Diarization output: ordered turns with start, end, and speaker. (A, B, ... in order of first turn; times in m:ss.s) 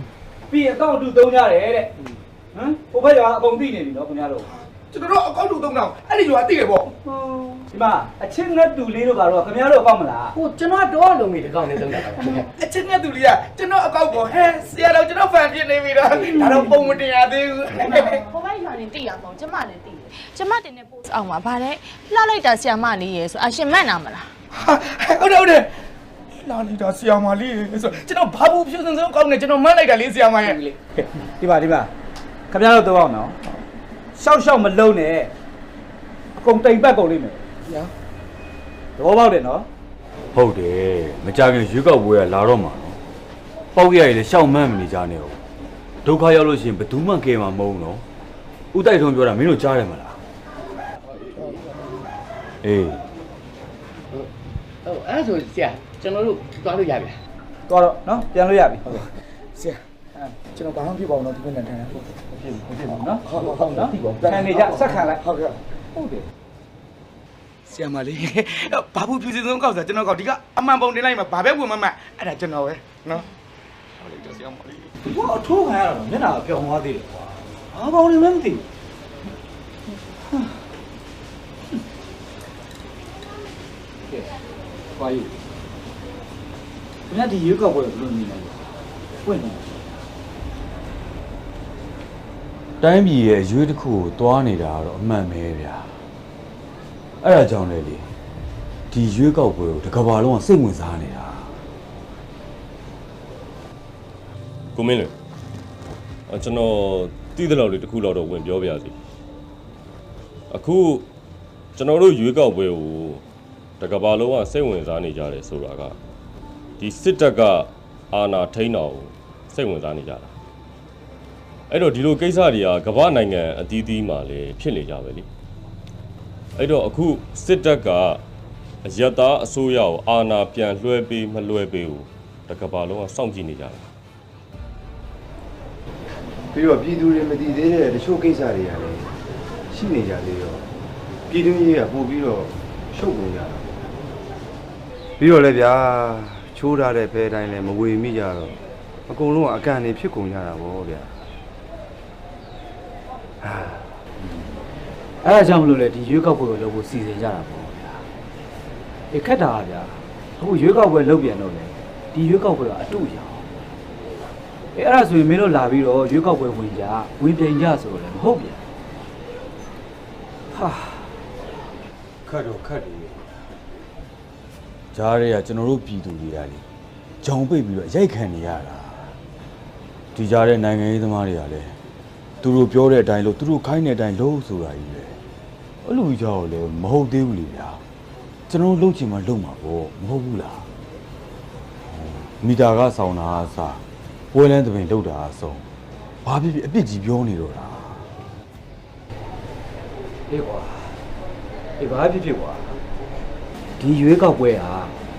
0:00.5-0:01.9 A
0:02.5-0:04.5 A
0:04.9-0:07.0 B
0:07.6-0:10.3 A
0:10.4-0:12.4 C
0:12.5-0:18.3 B
0:18.0-0:24.3 D
0:24.6-0:25.7 B
0:26.4-0:30.6 B
0:31.0-0:31.9 A
0:32.5-0:33.4 A
0:34.1-0:35.3 A
0:36.4-0:37.4 A
0:39.0-0:39.7 A
0:40.3-0:43.0 E
0:43.7-0:45.4 E
0:46.0-0:48.0 E
0:48.7-0:50.2 E
0:52.6-0:53.0 E
0:54.9-0:57.0 C
0:57.7-0:59.0 A
0:59.6-0:59.8 B
1:00.5-1:02.0 B
1:02.3-1:05.2 A
1:03.2-1:05.6 B
1:05.9-1:06.2 A
1:07.7-1:13.2 B
1:14.0-1:14.8 B
1:15.0-1:17.2 A
1:17.7-1:18.6 A
1:25.0-1:25.3 A
1:27.1-1:28.6 A
1:29.2-1:29.8 A
1:32.8-1:36.0 E
1:37.2-1:38.1 E
1:38.9-1:41.6 E
1:44.7-1:45.1 F
1:46.3-1:48.9 F
1:50.5-1:51.0 F
1:51.7-1:53.2 F
1:53.8-1:56.0 F
1:56.8-2:00.3 F
2:01.7-2:05.3 F
2:06.6-2:08.2 F
2:08.8-2:13.9 F
2:16.5-2:19.1 G
2:19.7-2:20.6 G
2:21.3-2:23.9 G
2:25.2-2:31.1 G
2:33.4-2:33.8 G
2:35.2-2:38.0 A
2:39.1-2:43.4 A
2:44.7-2:48.6 A
2:50.5-2:51.0 A
2:52.2-2:53.3 E
2:54.9-2:56.6 E
2:57.2-2:59.2 E
3:00.1-3:01.8 E
3:02.4-3:05.2 E
3:05.8-3:07.8 E
3:08.5-3:10.7 E
3:11.8-3:15.7 E
3:16.2-3:18.1 E
3:20.3-3:21.0 A
3:21.8-3:22.8 A
3:23.8-3:24.9 A